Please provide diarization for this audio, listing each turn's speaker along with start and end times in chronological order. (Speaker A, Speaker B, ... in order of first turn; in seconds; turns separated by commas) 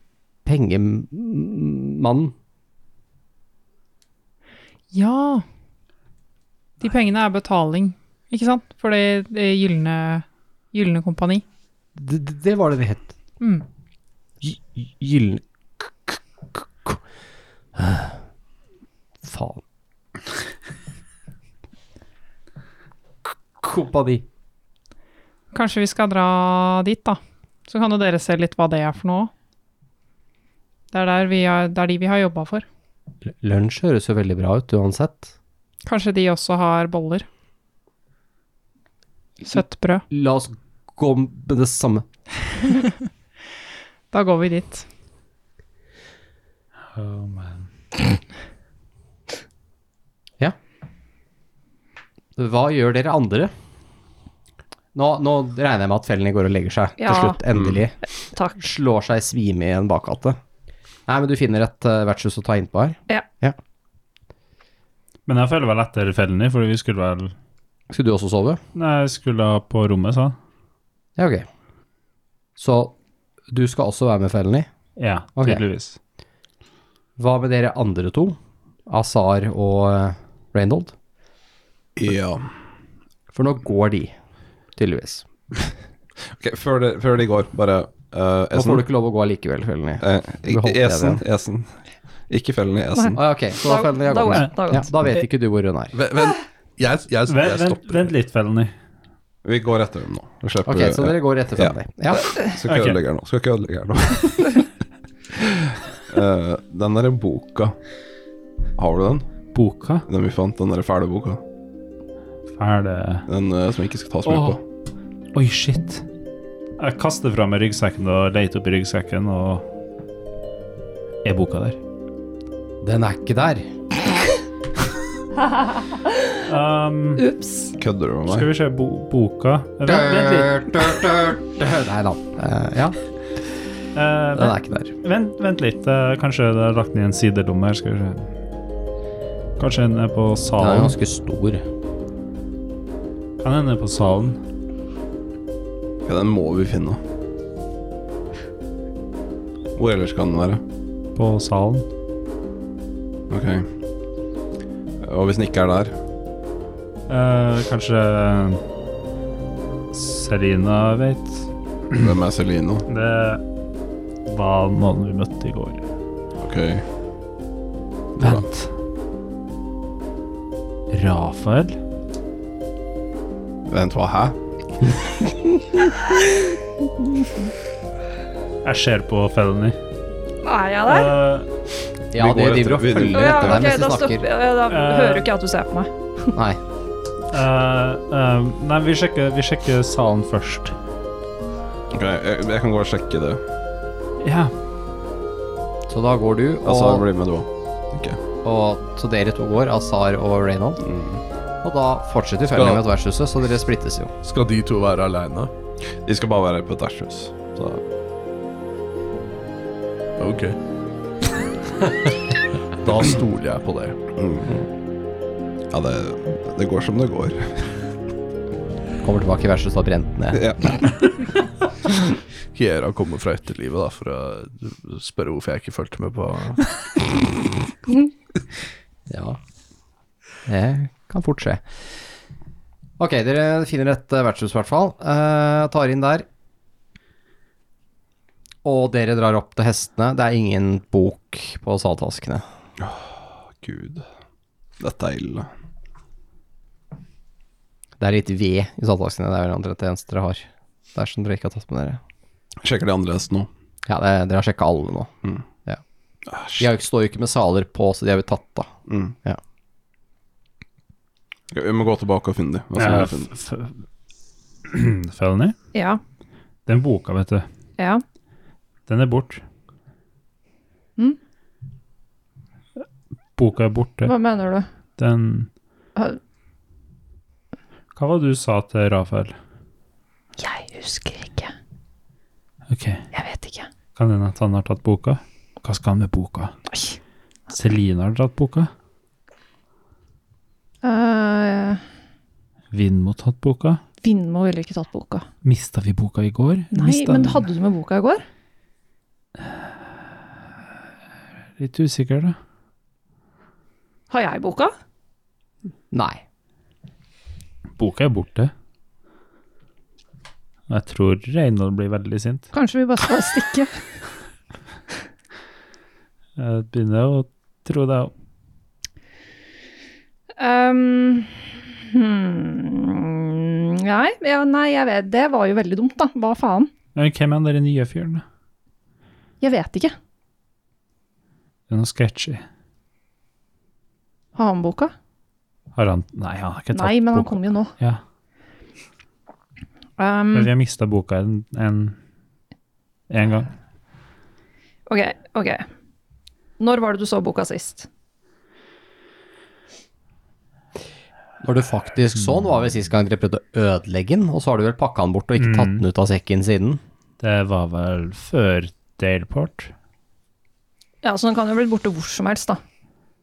Speaker A: 0.4-2.3, Speaker B: 4.9-5.4, Speaker B: 6.8-11.4, Speaker A: 11.9-13.1, Speaker A: 14.4-17.0, Speaker A: 17.7-18.2, Speaker A: 19.2-19.6, Speaker A: 23.6-24.2, Speaker B: 25.5-29.3, Speaker B: 30.9-32.6, Speaker A: 33.3-35.3, Speaker B: 35.9-37.2, Speaker B: 39.4-40.0, Speaker A: 39.5-42.0, Speaker B: 44.1-44.9, Speaker C: 46.9-47.7, Speaker A: 52.4-53.5, Speaker A: 54.9-57.9, Speaker D: 57.0-57.4, Speaker E: 57.5-57.8, Speaker D: 58.3-58.6, Speaker A: 58.6-60.4, Speaker A: 61.1-63.6, Speaker C: 65.3-67.3, Speaker A: 67.9-68.6, Speaker C: 68.7-70.3, Speaker A: 71.2-71.5, Speaker A: 72.6-72.9, Speaker A: 73.5-74.7, Speaker C: 75.0-76.0, Speaker A: 75.4-75.6, Speaker A: 77.2-80.9, Speaker E: 82.0-82.5, Speaker A: 83.3-84.1, Speaker A: 84.8-85.2, Speaker E: 86.3-88.8, Speaker A: 88.5-91.2, Speaker E: 90.0-91.8, Speaker E: 92.3-93.2, Speaker D: 92.9-94.9, Speaker A: 93.2-95.9, Speaker F: 95.9-98.1, Speaker C: 97.3-98.7, Speaker E: 99.4-104.7, Speaker A: 100.6-102.4, Speaker C: 102.6-103.0, Speaker E: 105.3-107.7, Speaker E: 108.8-109.3, Speaker C: 109.5-110.0, Speaker E: 110.1-111.4, Speaker C: 112.5-113.2, Speaker E: 113.3-114.6, Speaker C: 114.2-114.6, Speaker C: 115.3-116.0, Speaker C: 116.8-119.6, Speaker C: 121.2-121.8, Speaker A: 122.8-123.7, Speaker C: 126.5-127.2, Speaker D: 127.2-127.7, Speaker E: 127.8-128.5, Speaker C: 128.3-130.6, Speaker A: 129.8-133.0, Speaker C: 133.9-138.3, Speaker A: 134.3-134.9, Speaker C: 139.6-140.9, Speaker A: 140.6-141.6, Speaker C: 143.4-144.4, Speaker E: 146.1-147.0, Speaker E: 149.8-150.6, Speaker C: 151.1-151.8, Speaker E: 153.3-153.7, Speaker E: 155.0-155.9, Speaker C: 157.1-158.6, Speaker C: 159.9-162.0, Speaker E: 161.9-162.8, Speaker C: 162.9-163.4, Speaker C: 164.2-165.8, Speaker E: 166.4-166.8, Speaker E: 168.2-168.4, Speaker C: 168.2-168.7, Speaker C: 170.9-171.8, Speaker E: 173.7-174.3, Speaker C: 178.6-179.8, Speaker D: 180.4-181.1, Speaker C: 180.8-181.5, Speaker A: 182.1-184.2, Speaker E: 182.1-183.6, Speaker D: 183.1-185.9, Speaker C: 184.7-185.3, Speaker A: 186.3-186.6, Speaker C: 187.3-190.7, Speaker E: 191.9-193.4, Speaker C: 194.2-194.5, Speaker A: 195.9-197.1, Speaker E: 196.6-198.2, Speaker A: 198.4-200.8, Speaker E: 200.8-201.2, Speaker A: 201.6-204.1, Speaker F: 202.5-202.8, Speaker F: 204.2-205.5, Speaker E: 206.1-207.8, Speaker F: 210.2-210.6, Speaker F: 211.8-212.1, Speaker F: 212.8-213.9, Speaker E: 214.2-214.5, Speaker E: 215.7-217.6, Speaker A: 219.0-220.4, Speaker E: 220.3-220.8, Speaker F: 222.5-226.6, Speaker A: 229.1-229.4, Speaker A: 230.4-231.7, Speaker A: 233.0-236.2, Speaker A: 238.6-242.4, Speaker E: 242.8-244.0, Speaker E: 244.8-245.5, Speaker A: 248.0-252.0, Speaker E: 252.6-253.5, Speaker A: 253.8-255.1, Speaker E: 256.3-256.7, Speaker A: 256.6-258.7, Speaker E: 258.9-259.1, Speaker E: 261.5-263.3, Speaker C: 262.8-263.8, Speaker C: 264.6-265.5, Speaker D: 265.7-266.0, Speaker C: 266.7-267.5, Speaker D: 267.8-268.0, Speaker C: 268.9-269.4, Speaker C: 273.4-274.1, Speaker D: 274.0-274.7, Speaker C: 275.0-275.5, Speaker C: 277.9-279.3, Speaker D: 280.4-281.5, Speaker C: 282.7-283.0, Speaker D: 283.1-283.7, Speaker C: 283.9-286.5, Speaker D: 286.7-287.0, Speaker C: 287.5-288.7, Speaker D: 290.8-291.8, Speaker C: 292.7-293.8, Speaker D: 294.0-295.2, Speaker C: 295.4-297.4, Speaker D: 296.7-298.2, Speaker C: 301.6-302.4, Speaker D: 304.1-304.7, Speaker A: 305.9-306.2, Speaker C: 307.8-308.5, Speaker C: 310.7-312.5, Speaker D: 312.5-313.8, Speaker C: 316.4-318.1, Speaker D: 320.4-326.7, Speaker C: 326.9-328.2, Speaker D: 329.4-329.9, Speaker C: 331.7-332.4, Speaker D: 334.4-334.9, Speaker C: 335.8-338.0, Speaker D: 336.7-337.7, Speaker D: 340.0-340.5, Speaker C: 340.3-341.9, Speaker C: 343.1-343.5, Speaker D: 344.9-345.6, Speaker D: 346.6-347.9, Speaker A: 351.4-356.8, Speaker C: 355.4-355.8, Speaker C: 357.2-359.7, Speaker D: 361.0-362.6